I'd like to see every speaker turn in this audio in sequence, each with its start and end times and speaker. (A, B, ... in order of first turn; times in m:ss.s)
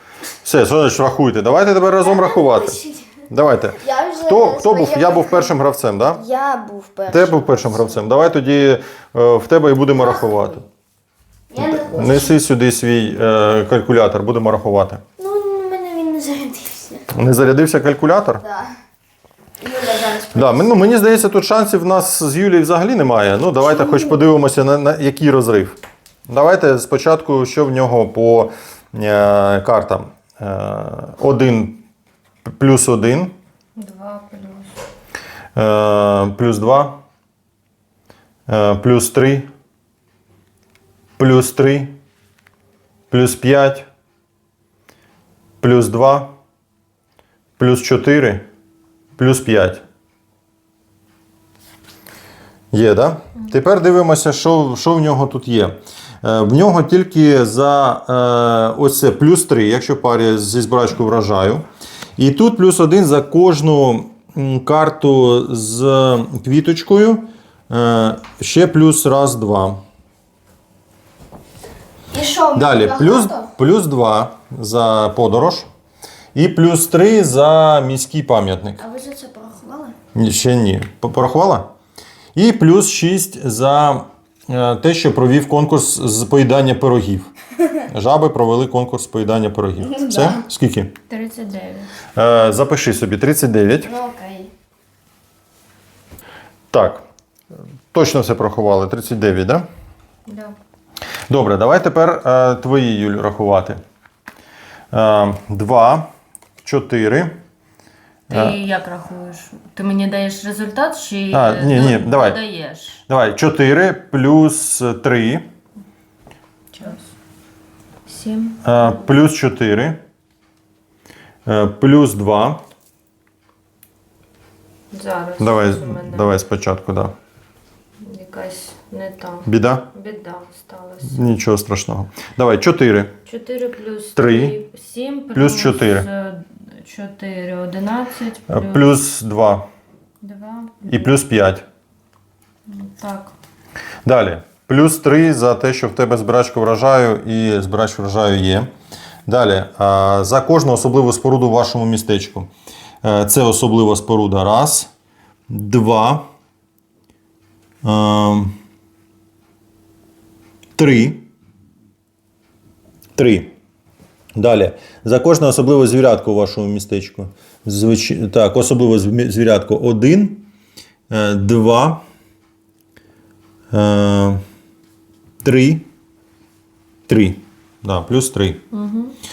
0:00.4-0:02.8 A
0:02.0-0:03.2 B
0:03.3-0:06.2 A
0:03.8-0:05.5 B
0:06.2-0:08.0 B
0:07.1-0:10.6 A
0:09.9-0:10.6 B
0:11.5-0:12.4 B
0:11.6-0:15.0 A
0:15.2-0:17.1 B
0:17.1-0:18.4 A
0:18.4-0:18.7 B
0:19.6-0:20.7 B
0:20.4-0:31.8 A
0:23.6-0:24.2 B
0:32.5-0:33.4 A
0:33.8-0:34.7 C
0:35.6-0:37.0 A
0:38.5-0:39.5 A
0:41.2-0:42.0 A
0:43.1-0:43.9 A
0:45.6-0:46.3 A
0:47.6-0:48.4 A
0:49.2-0:49.8 A
0:52.7-1:01.6 A
1:02.2-1:09.8 A
1:12.1-1:13.5 B
1:12.6-1:15.7 A
1:16.4-1:18.8 A
1:18.8-1:20.0 B
1:20.1-1:21.7 A
1:22.4-1:27.3 A
1:27.9-1:30.9 A
1:29.8-1:30.4 B
1:31.1-1:31.9 C
1:32.2-1:33.9 A
1:33.8-1:34.5 B
1:36.7-1:37.0 A
1:37.9-1:39.7 A
1:40.3-1:40.6 C
1:41.3-1:43.8 A
1:44.9-1:46.1 A
1:46.6-1:47.4 A
1:48.3-1:48.6 A
1:48.3-1:53.0 C
1:51.3-1:52.4 A
1:53.1-1:55.5 A
1:56.7-1:57.1 C
1:58.1-1:58.6 C
1:58.6-2:00.0 A
2:01.5-2:02.6 A
2:04.9-2:06.4 C
2:05.4-2:07.1 A
2:08.0-2:11.2 C
2:09.5-2:09.9 A
2:11.1-2:13.1 A
2:13.3-2:18.9 C
2:14.2-2:14.6 A
2:15.4-2:16.1 A
2:18.5-2:19.7 A
2:20.2-2:21.2 C
2:20.9-2:21.6 A
2:22.7-2:23.3 C
2:24.0-2:28.7 A
2:29.3-2:32.5 A
2:33.0-2:34.9 A
2:35.5-2:36.3 A
2:37.8-2:38.6 A
2:40.8-2:41.2 A
2:43.2-2:43.5 A
2:44.4-2:50.5 A
2:51.1-2:52.0 A
2:53.7-2:54.4 A
2:55.4-2:55.9 A
2:57.1-2:58.6 A
2:58.7-2:59.2 C